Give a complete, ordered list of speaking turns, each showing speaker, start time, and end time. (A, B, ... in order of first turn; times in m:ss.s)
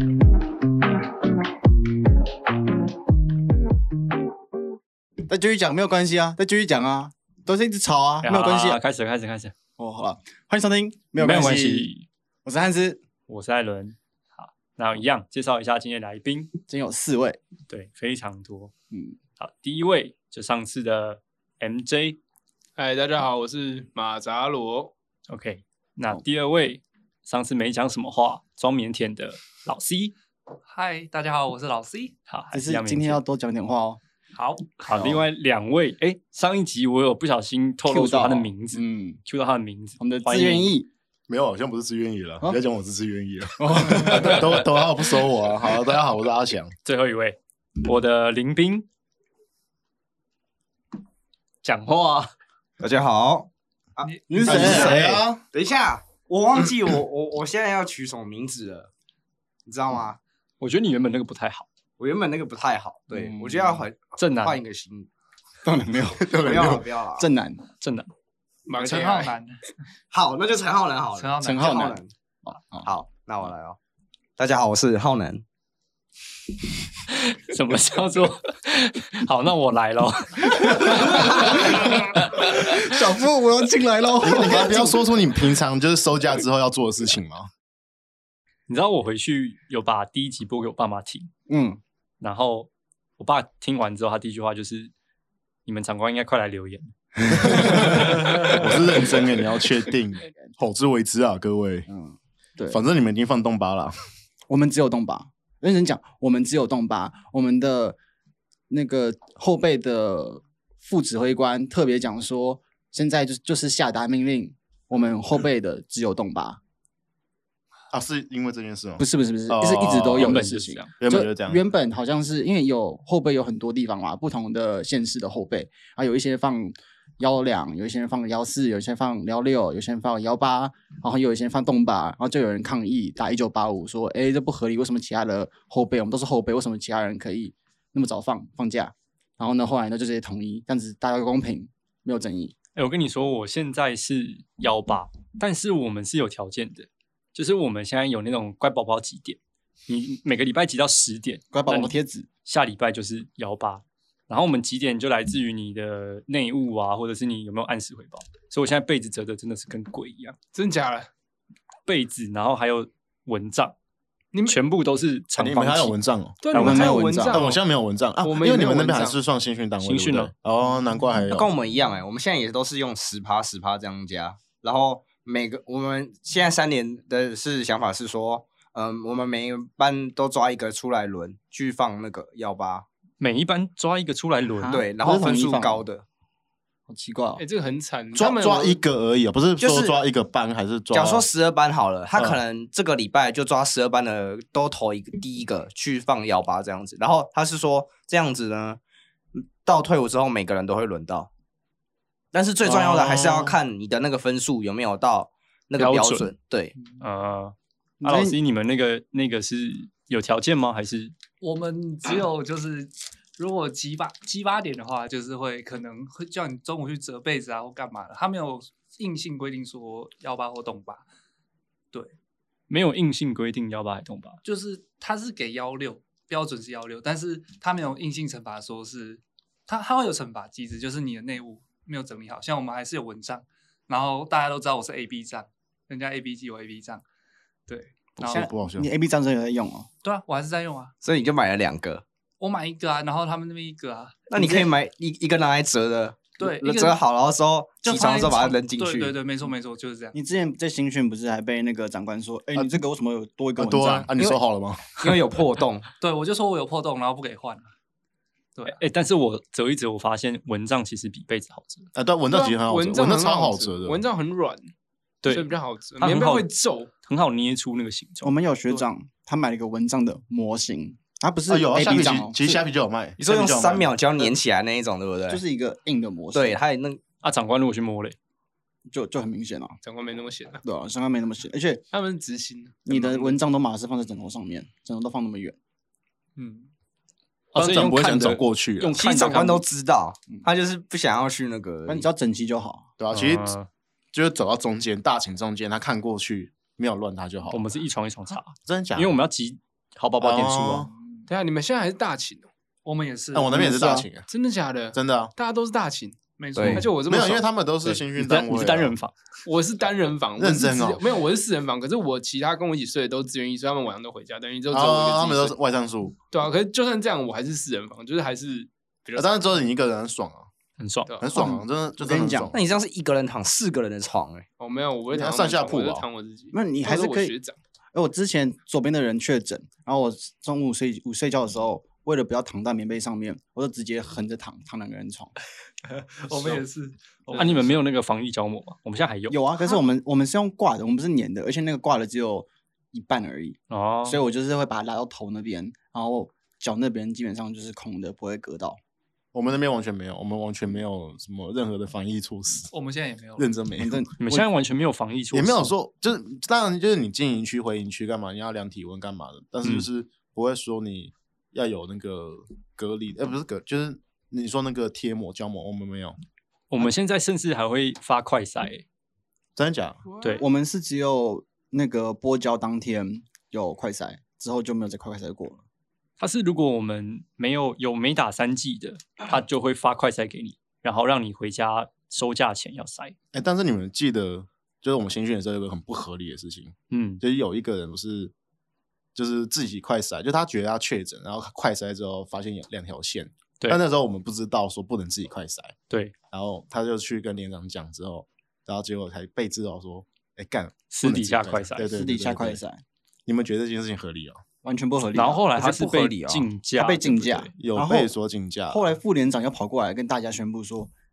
0:05.3-0:08.8 A
0:08.2-0:09.5 B
0:09.8-0:11.9 A
0:11.2-0:12.0 B
0:12.4-0:13.0 A
0:13.3-0:16.5 B
0:16.7-0:17.4 A
0:17.7-0:18.7 B
0:19.4-0:22.2 B
0:22.8-0:24.9 C
0:25.3-0:30.1 B
0:30.7-0:32.2 D
0:32.3-0:33.2 B
0:32.5-0:34.0 A
0:34.3-0:34.8 D
0:34.8-0:40.7 B
0:34.9-0:35.2 A
0:37.8-0:39.2 A
0:40.0-0:40.9 A
0:41.3-0:46.7 E
0:43.6-0:44.6 A
0:46.8-0:48.8 B
0:51.6-0:52.3 B
0:52.8-0:58.9 F
0:54.0-0:54.5 D
0:54.3-0:55.2 A
0:54.4-0:55.4 E
0:59.6-1:00.2 F
1:00.6-1:01.7 B
1:02.0-1:05.1 F
1:03.1-1:03.8 A
1:04.2-1:04.6 B
1:05.6-1:07.6 A
1:06.2-1:06.8 E
1:06.4-1:07.3 F
1:07.8-1:08.1 B
1:08.7-1:09.4 C
1:08.7-1:09.6 D
1:10.1-1:12.1 F
1:11.1-1:12.0 D
1:11.4-1:12.9 A
1:12.8-1:13.8 F
1:14.4-1:15.4 F
1:17.1-1:22.7 B
1:20.8-1:25.0 A
1:24.2-1:27.5 E
1:28.7-1:31.3 B
1:31.5-1:31.8 A
1:32.2-1:34.9 B
1:35.6-1:38.0 B
1:37.4-1:41.9 E
1:41.9-1:42.8 A
1:42.7-1:44.0 E
1:44.5-1:48.0 A
1:48.7-1:56.6 A
1:57.9-2:00.4 E
1:59.0-2:22.5 A
2:00.1-2:00.9 B
2:01.0-2:01.6 E
2:22.8-2:40.4 B
2:31.5-2:32.3 A
2:40.5-2:41.1 C
2:41.8-2:43.7 B
2:44.3-2:44.6 C
2:44.4-2:46.0 B
2:45.4-2:46.4 E
2:46.4-2:47.6 C
2:46.5-2:47.1 B
2:46.5-2:47.4 A
2:47.3-2:51.5 E
2:48.2-2:49.2 C
2:49.8-2:50.3 B
2:51.3-3:02.8 F
3:03.2-3:04.8 B
3:04.6-3:05.8 A
3:04.7-3:06.0 F
3:06.9-3:07.4 A
3:07.4-3:08.8 C
3:08.1-3:11.3 E
3:09.6-3:10.0 F
3:10.9-3:18.8 F
3:19.3-3:21.3 F
3:22.3-3:26.7 F
3:22.6-3:23.6 E
3:25.8-3:26.3 B
3:27.0-3:31.1 B
3:28.0-3:28.4 A
3:31.4-3:41.0 D
3:42.7-3:44.4 B
3:44.4-3:57.0 D
3:57.7-3:58.4 D
3:58.2-3:58.9 E
3:58.2-3:59.9 A
4:00.0-4:00.9 D
4:01.0-4:02.0 F
4:02.4-4:04.3 D
4:04.3-4:09.1 F
4:04.4-4:04.7 A
4:06.4-4:07.0 D
4:07.8-4:10.2 D
4:10.1-4:14.4 A
4:12.5-4:12.8 E
4:13.6-4:15.2 E
4:15.0-4:15.9 F
4:16.0-4:17.7 D
4:18.7-4:21.9 B
4:21.9-4:24.0 E
4:22.3-4:24.7 C
4:25.2-4:26.5 B
4:25.3-4:26.9 C
4:27.0-4:28.8 B
4:28.2-4:32.6 A
4:31.5-4:33.9 E
4:33.2-4:35.4 F
4:35.3-4:36.6 A
4:36.3-4:37.0 F
4:37.2-4:38.1 B
4:38.9-4:39.8 A
4:39.8-4:40.6 C
4:40.6-4:41.8 A
4:41.9-4:43.4 C
4:42.8-4:45.6 A
4:46.4-4:46.7 D
4:47.5-4:49.0 E
4:47.5-4:49.6 B
4:48.8-4:52.1 F
4:51.9-4:52.9 A
4:53.0-4:53.6 E
4:53.1-4:53.7 B
4:54.1-4:57.6 E
4:57.5-5:00.9 B
4:58.6-4:59.1 E
5:00.2-5:00.9 E
5:01.0-5:01.2 D
5:01.3-5:02.5 C
5:02.8-5:03.6 D
5:03.3-5:04.3 E
5:03.6-5:04.0 A
5:04.3-5:07.5 C
5:04.9-5:05.3 E
5:06.4-5:06.8 D
5:06.6-5:06.9 F
5:07.0-5:08.9 E
5:07.8-5:09.1 B
5:09.4-5:15.6 C
5:10.4-5:11.1 E
5:14.7-5:16.1 E
5:16.3-5:19.6 C
5:19.1-5:20.5 E
5:20.8-5:21.2 B
5:21.1-5:21.4 C
5:21.2-5:22.6 E
5:21.4-5:22.5 A
5:22.5-5:24.4 F
5:24.6-5:27.6 C
5:25.1-5:26.0 E
5:26.5-5:27.3 A
5:27.9-5:35.3 A
5:36.2-5:37.7 D
5:37.3-5:39.4 B
5:39.3-5:48.8 A
5:43.7-5:44.2 B
5:49.3-5:52.7 E
5:52.7-5:53.5 D
5:53.4-5:54.0 E
5:53.8-5:54.4 A
5:54.2-5:55.7 B
5:55.3-6:06.2 E
6:06.7-6:08.8 B
6:09.6-6:10.0 E
6:10.3-6:15.6 A
6:16.2-6:23.1 B
6:23.3-6:28.3 E
6:26.9-6:27.2 B
6:29.1-6:35.7 E
6:36.3-6:42.6 E
6:40.9-6:41.9 B
6:41.9-6:42.8 A
6:43.2-6:44.4 E
6:44.6-6:45.4 A
6:45.1-6:47.5 B
6:45.5-6:46.4 F
6:46.7-6:48.1 A
6:47.5-6:48.8 E
6:48.7-6:50.9 A